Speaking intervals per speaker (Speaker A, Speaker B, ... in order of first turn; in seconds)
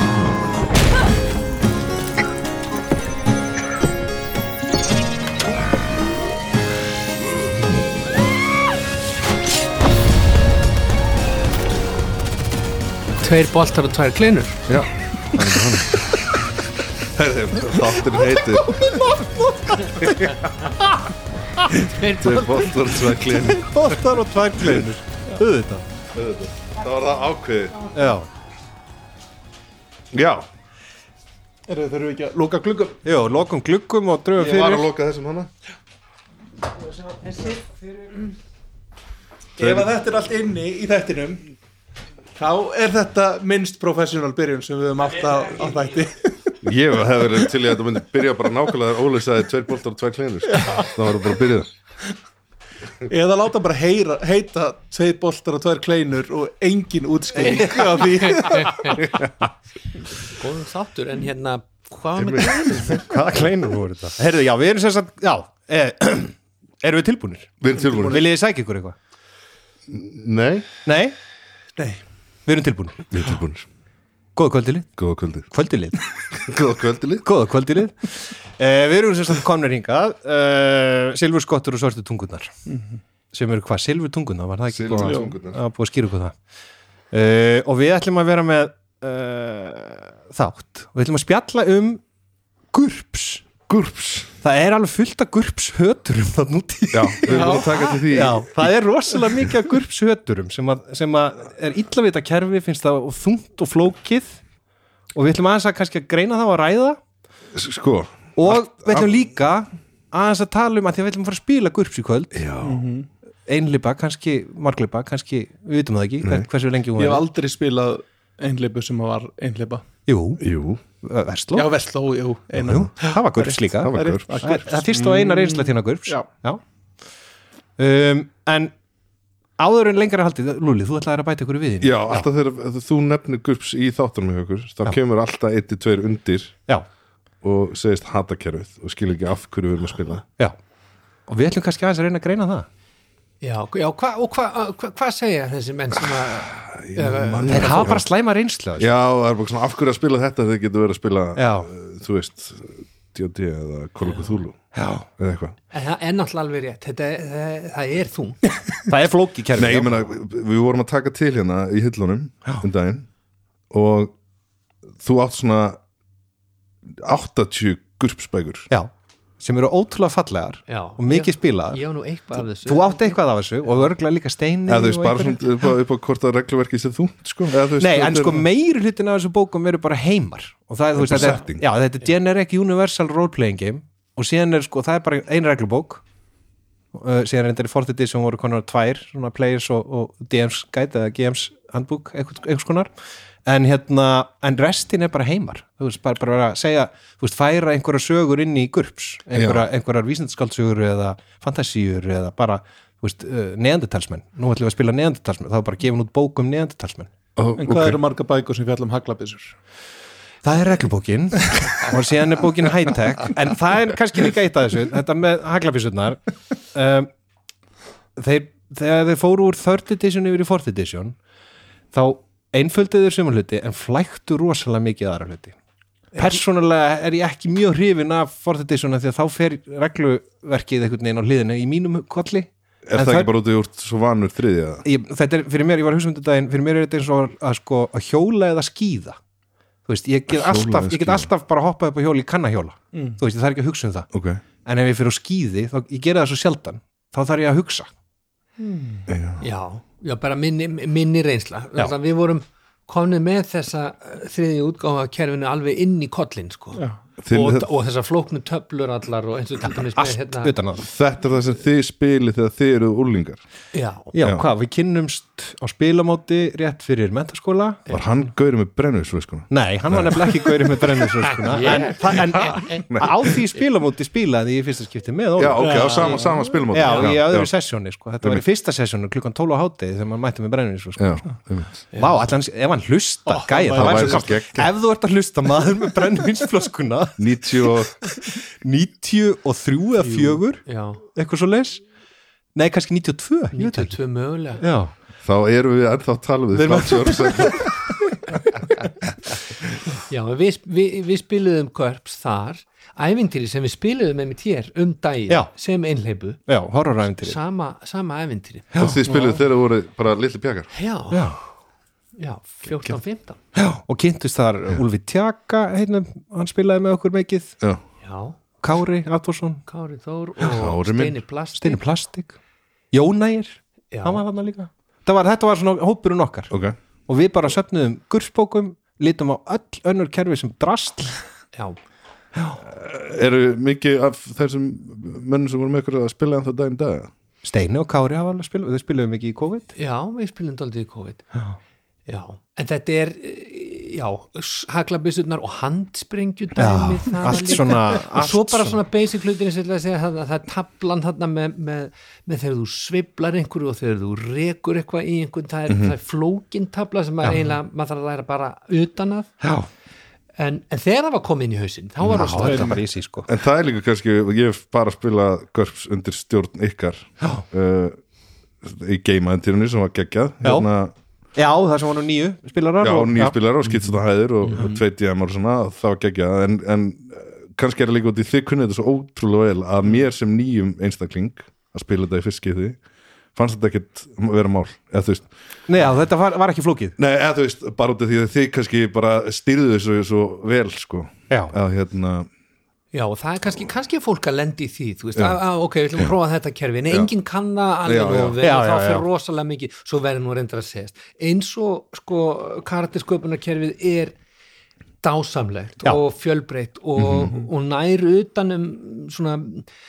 Speaker A: 13.2-14.6, 21.8-23.1, 58.2-59.0, 60.2-63.1, 143.4-148.0, 155.7-158.4, 170.7-173.2, 249.4-260.5, 263.7-264.1, 271.2-273.3, 290.0-291.0, 293.5-294.6, 298.5-299.4, 300.1-306.4, 307.0-308.7, 310.7-311.4, 312.2-313.4, 318.0-318.4, 319.7-321.8, 323.9-324.2, 339.8-341.2, 342.1-359.3, 360.4-362.8, 374.5-374.8, 392.9-404.1, 405.0-409.7
Speaker B: 14.7-16.0, 17.1-18.8, 20.0-20.3, 22.1-24.0, 26.1-27.9, 30.1-30.4, 34.4-35.5, 39.6-39.9, 46.6-51.7, 62.1-63.0, 67.6-68.2, 69.9-70.7, 73.1-73.7, 75.0-75.5, 76.3-77.2, 84.7-85.6, 93.7-94.3, 96.9-98.7, 107.5-109.1, 112.3-112.9, 120.4-120.8, 123.8-124.3, 131.8-136.6, 137.4-140.2, 146.5-148.0, 148.8-155.5, 159.6-163.1, 163.7-164.1, 165.0-165.8, 166.9-168.7, 174.7-178.5, 181.0-181.6, 199.3-199.7, 207.3-208.0, 232.9-234.8, 240.3-241.3, 244.1-244.4, 249.1-249.4, 257.2-257.7, 260.8-263.4, 264.2-264.4, 267.9-270.5, 272.9-273.2, 275.4-277.5, 281.0-281.8, 283.7-284.7, 287.2-287.9, 295.2-297.9, 308.8-310.7, 320.4-321.2, 326.5-326.8, 332.6-337.1, 355.7-355.9, 363.2-368.0, 368.6-370.9, 372.8-382.8, 383.3-385.3, 387.0-392.3, 397.8-398.4, 407.0-407.3
Speaker C: 18.5-20.4, 23.4-25.8, 27.9-28.3, 33.0-34.9, 62.9-68.9, 70.8-71.1, 72.5-73.0, 74.3-76.0, 77.2-82.5, 83.3-86.3, 87.1-92.0, 92.7-93.5, 94.4-104.4, 105.1-107.0, 108.3-112.5, 113.5-117.2, 120.1-120.4, 121.0-121.7, 122.6-126.6, 127.8-128.7, 129.6-132.2, 141.3-142.7, 147.5-148.9, 151.3-151.7, 154.7-155.1, 158.9-160.1, 168.7-171.8, 172.6-175.4, 177.8-186.0, 186.9-192.9, 193.4-207.1, 210.4-216.2, 216.7-217.1, 218.2-221.2, 221.9-225.5, 226.2-233.3, 234.8-239.2, 239.9-244.1, 244.6-247.9, 259.9-260.8, 264.1-267.8, 269.5-281.3, 281.9-291.8, 292.5-294.0, 294.6-294.9, 296.5-298.2, 306.5-307.4, 311.1-311.4, 313.5-317.5, 318.6-319.6, 321.6-322.4, 322.9-326.5, 327.1-331.2, 337.4-339.7, 346.6-348.8, 359.4-359.7, 362.0-363.3, 371.4-373.4, 385.7-386.9, 398.4-399.1
Speaker D: 31.7-33.0, 37.1-37.7, 39.6-41.5, 42.4-46.6, 50.5-50.9, 53.0-59.2, 67.8-68.1, 82.7-83.0, 85.0-85.3, 97.3-97.8, 112.6-113.1, 117.0-119.8, 121.5-126.2, 207.6-209.5, 242.9-243.2, 248.6-249.0, 275.6-276.4, 283.3-284.4, 309.0-309.4, 362.4-362.8